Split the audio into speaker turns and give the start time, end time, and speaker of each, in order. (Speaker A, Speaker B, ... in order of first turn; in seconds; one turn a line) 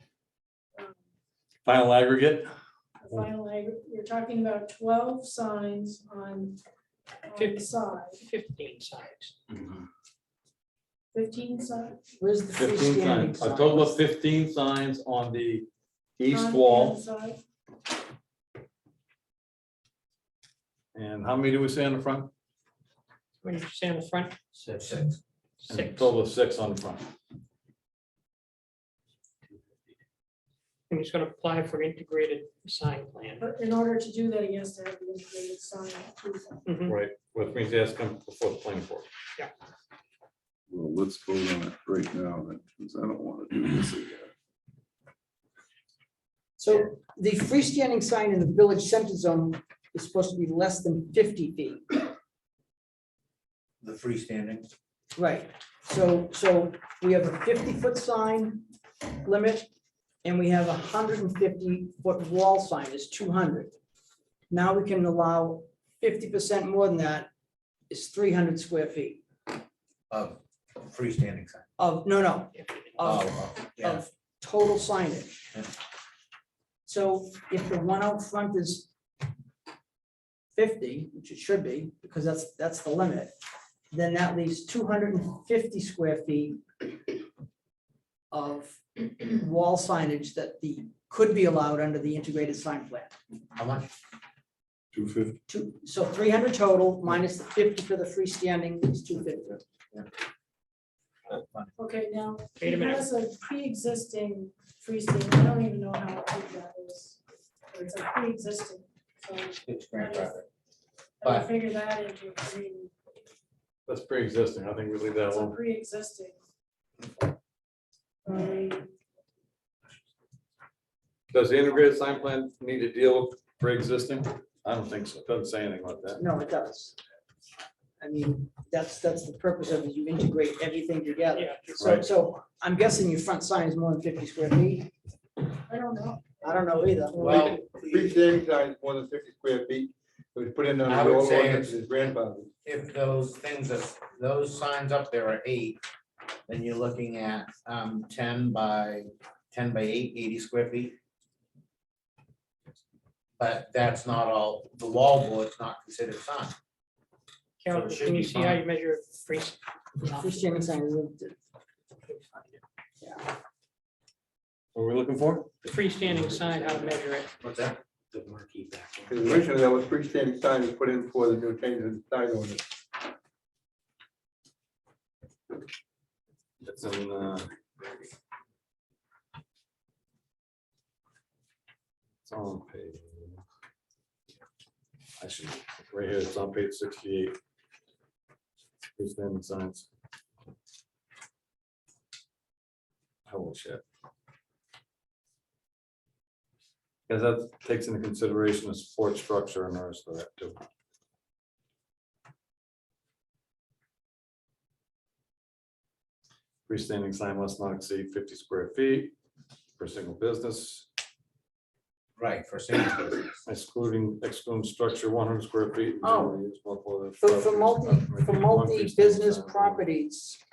Speaker A: 1.7-2.5
Speaker B: 3.0-6.6
Speaker B: 7.2-8.3
Speaker C: 8.4-9.3
Speaker B: 11.1-12.2
Speaker D: 12.2-14.0
Speaker A: 12.6-15.7
Speaker A: 16.2-17.0
Speaker B: 16.3-17.4
Speaker A: 20.9-22.3
Speaker C: 23.4-24.3
Speaker E: 24.6-25.2
Speaker A: 25.7-27.0
Speaker C: 25.7-26.0
Speaker C: 30.9-33.2
Speaker B: 33.4-36.7
Speaker A: 36.9-39.1
Speaker F: 40.7-44.3
Speaker D: 46.6-52.1
Speaker E: 53.8-54.7
Speaker D: 55.2-58.7
Speaker D: 59.2-59.7
Speaker D: 60.2-63.7
Speaker D: 64.5-67.3
Speaker D: 67.9-69.2
Speaker E: 70.1-71.7
Speaker D: 71.8-75.5
Speaker E: 73.0-74.0
Speaker D: 76.9-78.9
Speaker D: 80.5-83.3
Speaker D: 83.9-86.6
Speaker D: 88.3-93.1
Speaker E: 93.6-93.9
Speaker A: 94.9-95.4
Speaker D: 95.5-99.6
Speaker E: 101.3-101.7
Speaker B: 101.8-107.2
Speaker B: 107.7-110.4
Speaker E: 109.7-110.5
Speaker B: 111.2-112.9
Speaker E: 111.2-111.5
Speaker A: 113.9-115.6
Speaker B: 115.3-116.4
Speaker B: 118.2-118.9
Speaker A: 121.3-126.2
Speaker D: 126.2-127.0
Speaker D: 128.0-134.9
Speaker A: 131.7-132.1
Speaker B: 135.7-136.7
Speaker D: 136.4-137.4
Speaker E: 137.2-138.3
Speaker G: 137.4-142.5
Speaker E: 140.8-142.0
Speaker E: 142.7-145.8
Speaker E: 146.5-151.0
Speaker E: 153.4-156.6
Speaker C: 157.6-159.6
Speaker E: 157.7-158.6
Speaker D: 160.0-161.3
Speaker D: 163.0-163.3
Speaker A: 164.8-165.6
Speaker C: 165.7-167.2
Speaker E: 167.4-169.4
Speaker G: 169.1-172.7
Speaker A: 176.6-177.5
Speaker A: 182.2-183.4
Speaker A: 185.2-187.4
Speaker A: 189.0-189.9
Speaker A: 193.3-193.8
Speaker A: 197.1-200.6
Speaker A: 206.7-209.1
Speaker A: 209.8-210.9
Speaker E: 212.2-213.4
Speaker A: 213.5-219.8
Speaker D: 216.0-216.4
Speaker D: 217.2-220.4